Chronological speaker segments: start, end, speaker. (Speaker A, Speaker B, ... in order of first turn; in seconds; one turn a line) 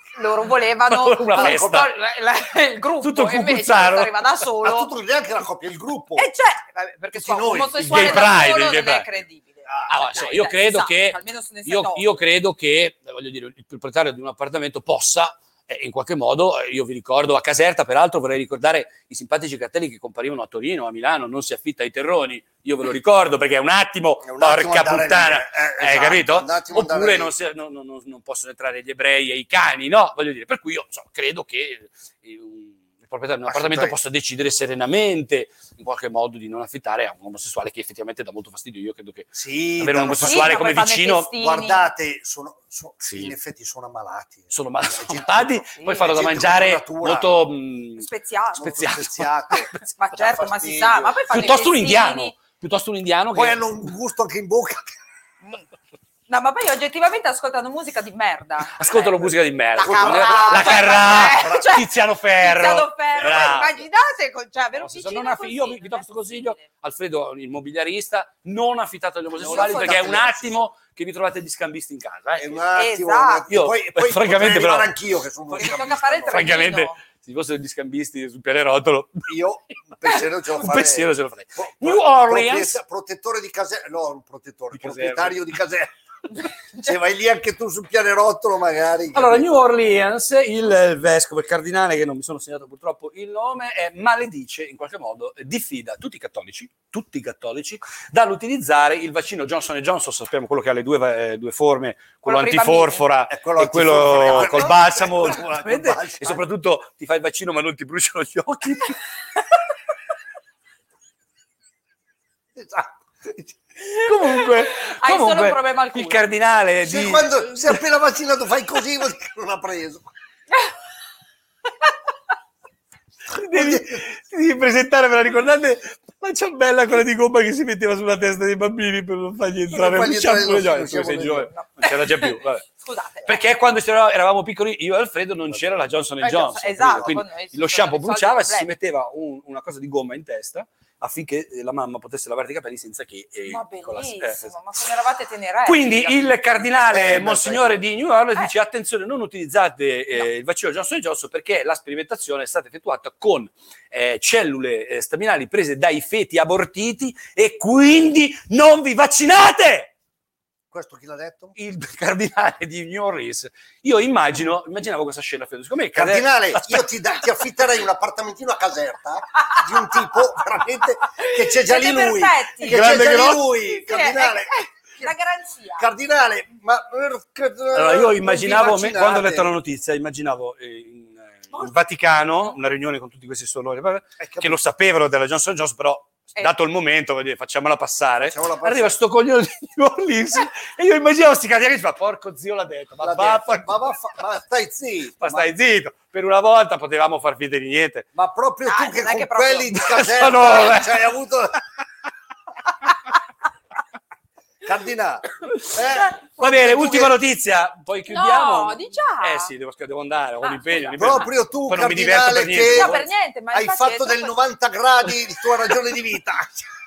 Speaker A: 0.1-4.9
Speaker B: 0.9-1.9
Speaker C: 1.3-1.9
Speaker B: 3.0-4.1
Speaker C: 4.6-6.3
Speaker A: 6.2-12.1
Speaker C: 7.1-8.4
Speaker B: 7.8-9.1
Speaker C: 9.7-9.9
Speaker B: 9.9-41.3
Speaker C: 24.2-27.3
Speaker C: 33.5-34.0
Speaker C: 39.3-40.6
Speaker A: 40.2-41.9
Speaker C: 41.3-47.3
Speaker B: 43.0-43.3
Speaker B: 44.5-49.8
Speaker A: 45.8-46.1
Speaker A: 48.0-48.7
Speaker C: 48.5-51.2
Speaker A: 49.8-52.3
Speaker B: 51.3-53.6
Speaker C: 53.3-54.9
Speaker A: 56.3-66.6
Speaker B: 58.8-63.8
Speaker C: 59.8-61.7
Speaker B: 64.8-72.6
Speaker A: 69.4-70.2
Speaker C: 69.4-70.6
Speaker C: 72.4-76.5
Speaker A: 72.7-73.5
Speaker B: 73.5-74.9
Speaker A: 75.5-77.0
Speaker B: 76.3-79.3
Speaker C: 79.3-85.9
Speaker B: 80.0-82.8
Speaker B: 84.7-85.4
Speaker C: 86.7-89.5
Speaker B: 89.1-109.0
Speaker A: 102.2-103.0
Speaker C: 103.3-106.4
Speaker C: 112.5-113.5
Speaker B: 113.9-117.8
Speaker A: 114.2-116.2
Speaker C: 116.8-120.1
Speaker B: 123.3-132.6
Speaker C: 123.5-124.0
Speaker C: 129.7-131.5
Speaker A: 131.5-133.4
Speaker B: 133.2-144.5
Speaker A: 136.2-138.7
Speaker A: 143.5-146.2
Speaker B: 145.6-159.9
Speaker C: 146.8-147.8
Speaker C: 160.7-161.5
Speaker B: 161.6-166.9
Speaker C: 165.9-175.1
Speaker A: 171.2-175.9
Speaker B: 172.6-173.5
Speaker C: 175.8-179.5
Speaker B: 177.7-193.9
Speaker C: 184.2-184.6
Speaker C: 188.2-188.9
Speaker C: 193.0-195.5
Speaker B: 195.2-198.1
Speaker C: 198.1-201.6
Speaker A: 198.7-200.1
Speaker B: 199.8-201.1
Speaker C: 204.6-207.2
Speaker B: 205.5-205.8
Speaker B: 206.4-213.1
Speaker A: 208.1-209.5
Speaker A: 210.4-211.3
Speaker C: 210.9-216.7
Speaker A: 212.6-214.4